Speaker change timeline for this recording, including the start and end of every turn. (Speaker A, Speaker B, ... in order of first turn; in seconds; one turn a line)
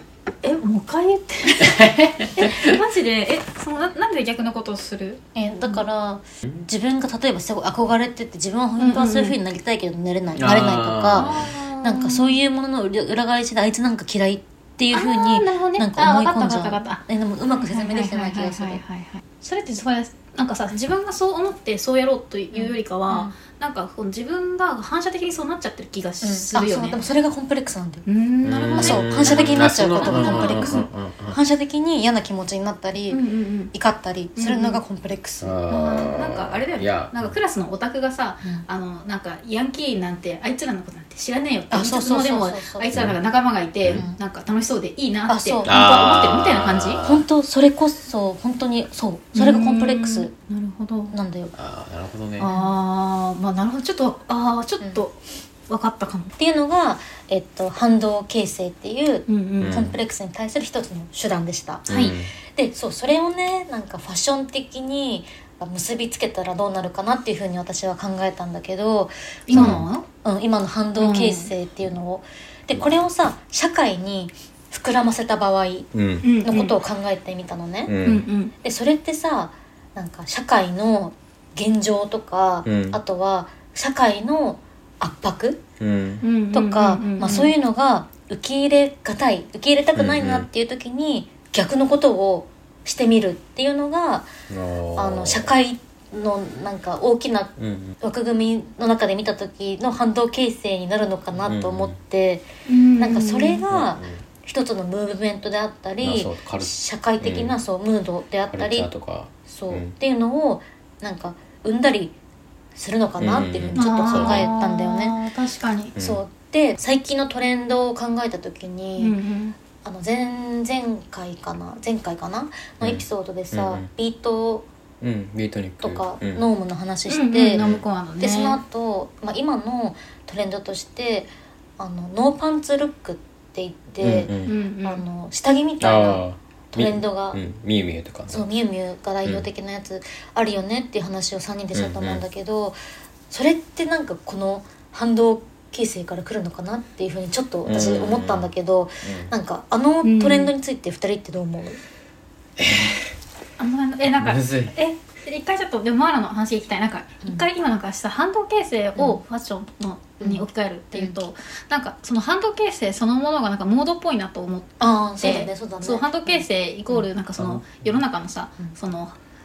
Speaker A: 0.4-5.8
Speaker B: 1.6-2.7
Speaker C: 5.3-18.8
Speaker A: 8.8-9.3
Speaker B: 10.3-11.5
Speaker A: 11.1-12.3
Speaker A: 14.9-27.0
Speaker C: 22.5-23.3
Speaker C: 26.2-28.0
Speaker A: 28.1-30.9
Speaker B: 28.4-31.4
Speaker C: 28.8-33.2
Speaker A: 33.1-33.7
Speaker C: 33.7-35.6
Speaker A: 34.4-34.8
Speaker B: 35.4-37.3
Speaker A: 35.7-47.0
Speaker C: 41.7-43.0
Speaker C: 43.9-44.2
Speaker C: 45.3-45.8
Speaker B: 45.6-47.2
Speaker C: 47.0-50.3
Speaker A: 49.3-51.1
Speaker C: 51.1-51.5
Speaker B: 51.5-52.5
Speaker A: 52.4-56.3
Speaker C: 56.4-61.9
Speaker A: 59.3-59.8
Speaker B: 59.6-60.0
Speaker B: 61.9-62.3
Speaker A: 61.9-62.1
Speaker C: 62.5-75.9
Speaker A: 69.5-70.0
Speaker B: 69.5-69.9
Speaker A: 71.0-71.5
Speaker B: 75.9-76.3
Speaker A: 76.2-76.7
Speaker C: 76.4-77.9
Speaker B: 77.8-78.2
Speaker A: 78.0-78.5
Speaker C: 78.6-85.6
Speaker B: 82.6-83.0
Speaker B: 85.8-86.2
Speaker A: 86.2-87.5
Speaker C: 86.5-94.3
Speaker B: 90.0-90.5
Speaker B: 94.5-95.5
Speaker C: 95.0-102.5
Speaker B: 97.6-97.9
Speaker B: 101.4-102.0
Speaker A: 102.7-103.6
Speaker C: 103.0-108.9
Speaker B: 103.7-104.2
Speaker B: 106.0-107.5
Speaker B: 108.5-109.9
Speaker C: 109.5-112.1
Speaker C: 112.7-115.2
Speaker B: 113.2-114.5
Speaker A: 113.7-115.9
Speaker C: 116.0-119.2
Speaker A: 119.0-119.5
Speaker C: 119.8-124.7
Speaker B: 122.8-123.9
Speaker B: 125.0-126.4
Speaker C: 125.8-127.6
Speaker A: 127.1-128.6
Speaker B: 127.5-127.8
Speaker C: 128.2-137.4
Speaker B: 134.0-134.5
Speaker A: 134.4-135.0
Speaker B: 135.8-138.5
Speaker C: 138.3-142.8
Speaker B: 141.7-142.2
Speaker C: 143.3-151.8
Speaker B: 147.6-148.5
Speaker B: 149.0-149.3
Speaker A: 150.0-150.5
Speaker B: 152.6-153.1
Speaker A: 153.6-169.2
Speaker B: 154.2-154.7
Speaker C: 160.2-161.2
Speaker C: 164.8-167.0
Speaker B: 167.4-167.9